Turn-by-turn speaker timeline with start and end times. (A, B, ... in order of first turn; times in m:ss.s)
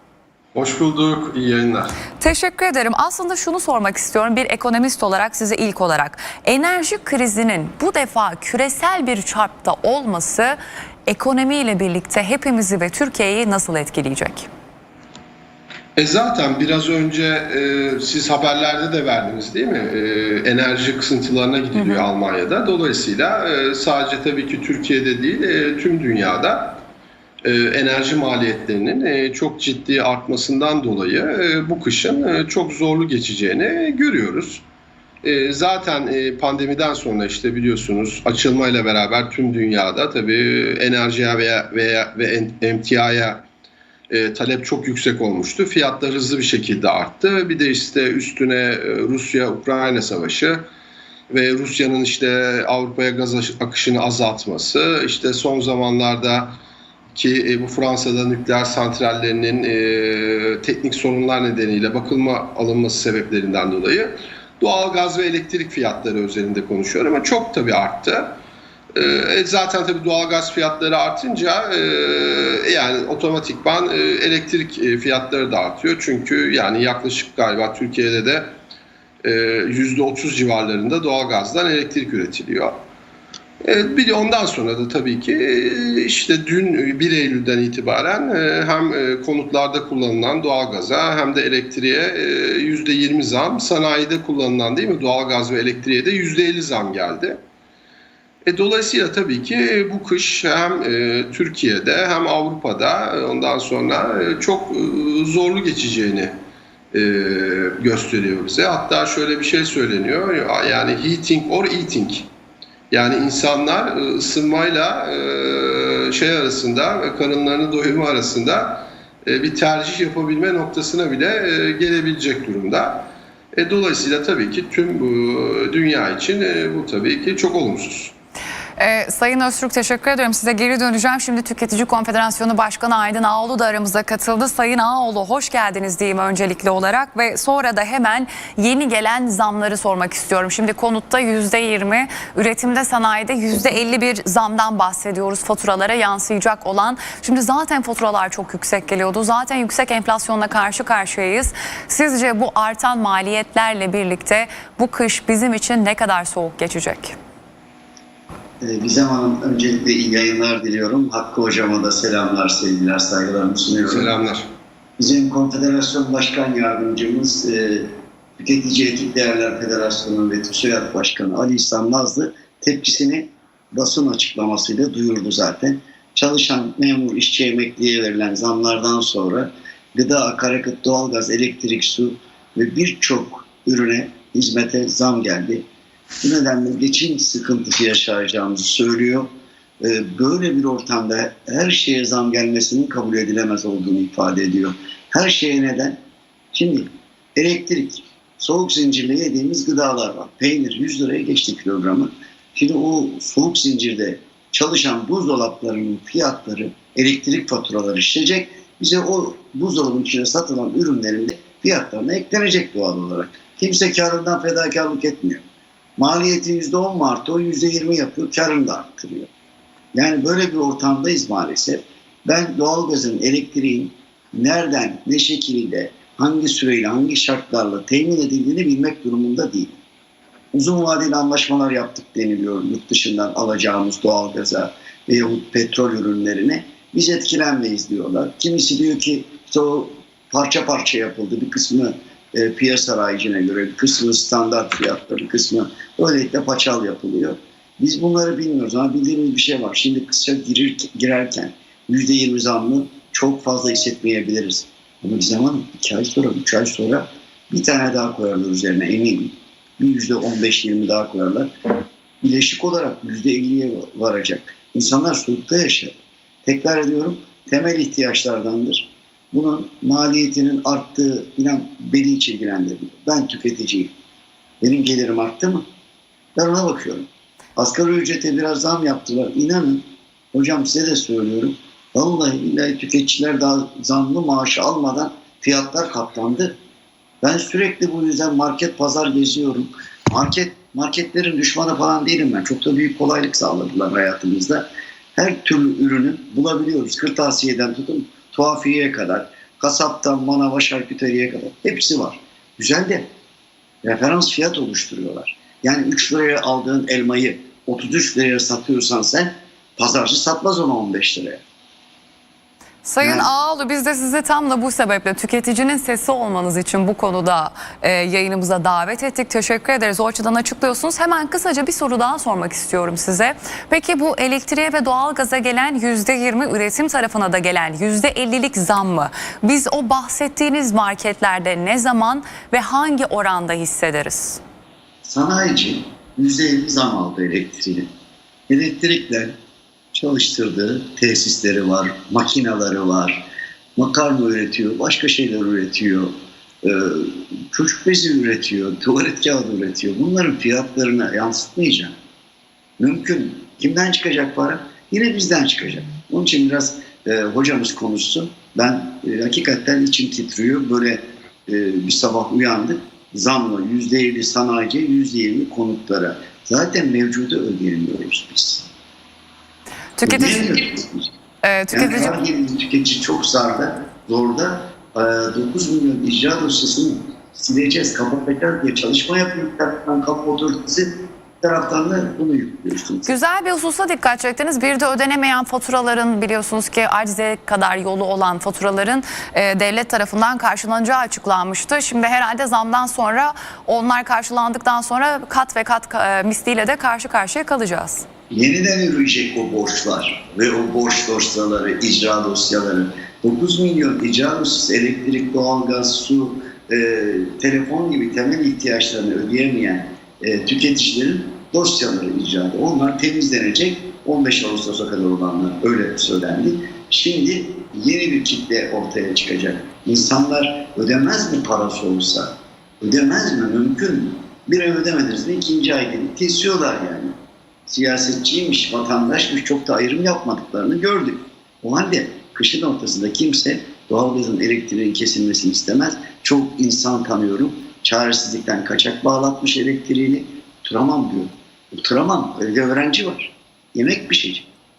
0:00.5-0:01.9 A
0:02.2-0:14.5 B
0:16.0-0:26.8 A
0:21.7-0:22.0 B
0:27.4-0:34.6 A
0:35.2-0:43.4 A
0:44.1-0:50.7 A
0:51.3-0:56.6 A
0:57.1-1:08.4 A
1:08.9-1:18.5 A
1:19.2-1:22.8 A
1:23.6-1:37.4 A
1:38.4-1:46.3 A
1:46.9-1:52.3 A
1:52.9-2:08.1 A
2:08.8-2:37.1 B
2:38.6-2:44.1 C
2:43.8-2:44.5 A
2:45.0-3:05.6 C
3:06.2-3:16.0 C
3:16.5-3:35.4 C
3:36.0-3:39.3 C
3:39.9-3:49.7 C
3:50.5-4:21.5 C
4:22.2-4:33.9 C
4:34.6-4:35.6 C
4:36.4-4:46.6 C
4:47.2-5:03.1 C
5:03.8-5:11.4 C
5:12.8-5:34.4 B
5:13.0-5:13.3 C
5:35.0-5:37.9 C
5:38.5-5:39.3 C
5:39.9-5:51.9 C
5:52.8-6:08.7 C
6:10.0-6:10.6 B
6:10.0-6:11.1 C
6:11.4-6:12.2 B
6:11.7-6:23.1 C
6:23.0-6:38.0 B
6:38.3-7:07.1 C
7:07.7-7:24.5 C